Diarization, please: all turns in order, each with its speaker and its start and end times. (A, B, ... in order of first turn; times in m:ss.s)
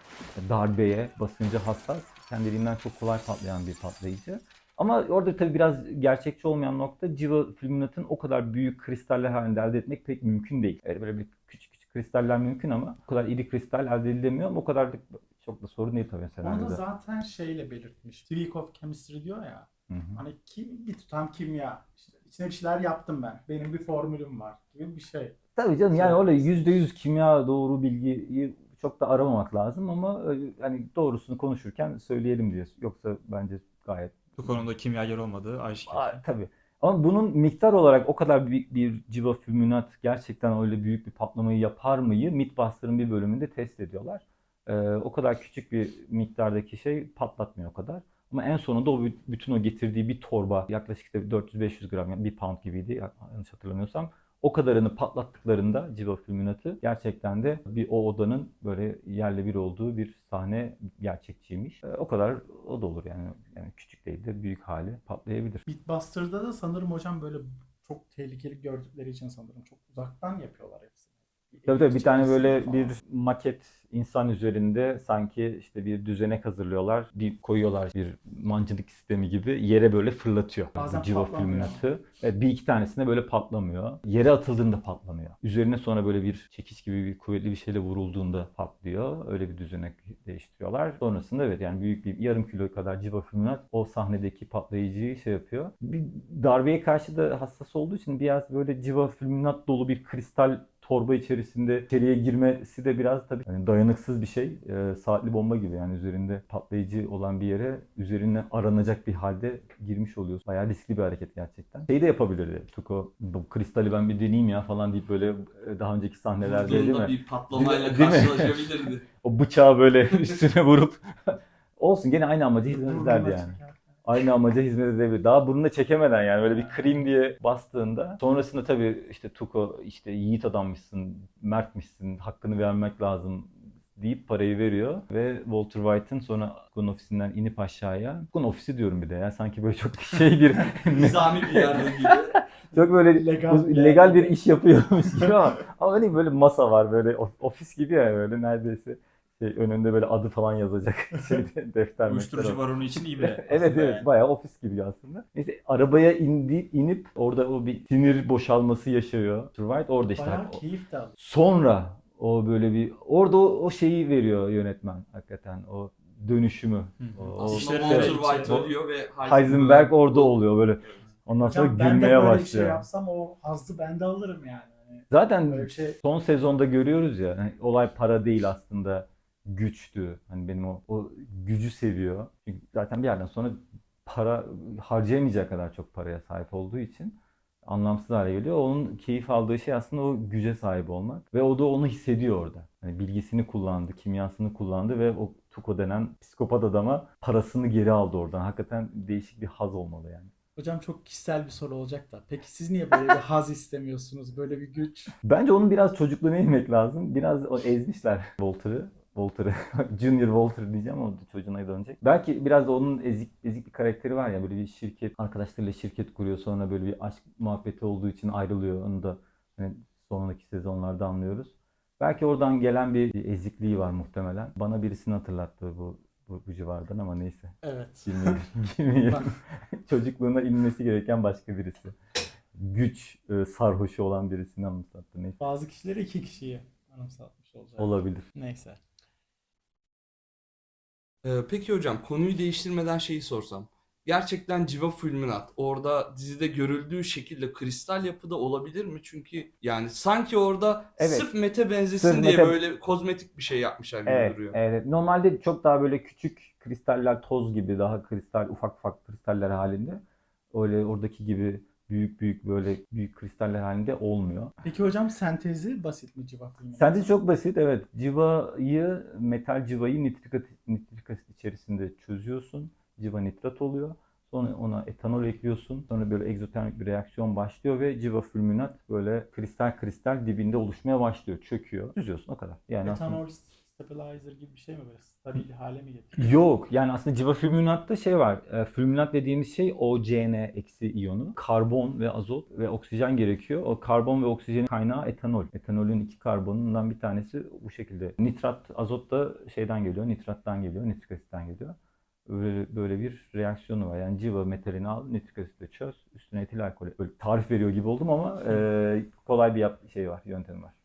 0:00.4-0:16.8 A
0:16.4-0:25.4 B
0:19.9-0:20.2 A
0:25.6-0:34.3 A
0:25.9-0:26.5 B
0:34.4-0:36.2 C
0:35.9-1:05.6 A
1:05.7-1:13.0 B
1:11.7-1:58.7 A
1:20.8-1:21.8 B
1:56.4-1:59.0 D
1:59.2-2:40.6 A
2:02.6-2:03.9 B
2:06.5-2:07.0 B
2:20.9-2:22.4 D
2:22.8-2:24.5 B
2:32.0-2:34.0 C
2:40.2-2:41.2 B
2:41.2-2:48.7 A
2:47.4-2:50.4 D
2:47.4-2:48.2 C
2:48.0-2:48.5 B
2:49.2-2:52.8 A
2:51.4-2:56.0 B
2:55.1-3:20.3 A
3:20.6-3:25.1 B
3:25.2-3:52.0 A
3:47.6-3:48.4 B
3:52.6-3:55.4 A
3:55.4-3:58.8 B
3:57.8-3:58.3 A
4:01.2-4:14.6 D
4:11.0-4:11.3 A
4:12.0-4:12.6 A
4:14.1-4:20.0 A
4:20.5-4:24.5 A
4:24.6-4:27.1 B
4:26.8-4:43.2 A
4:42.8-4:46.4 B
4:46.2-5:01.8 A
5:02.3-5:10.7 A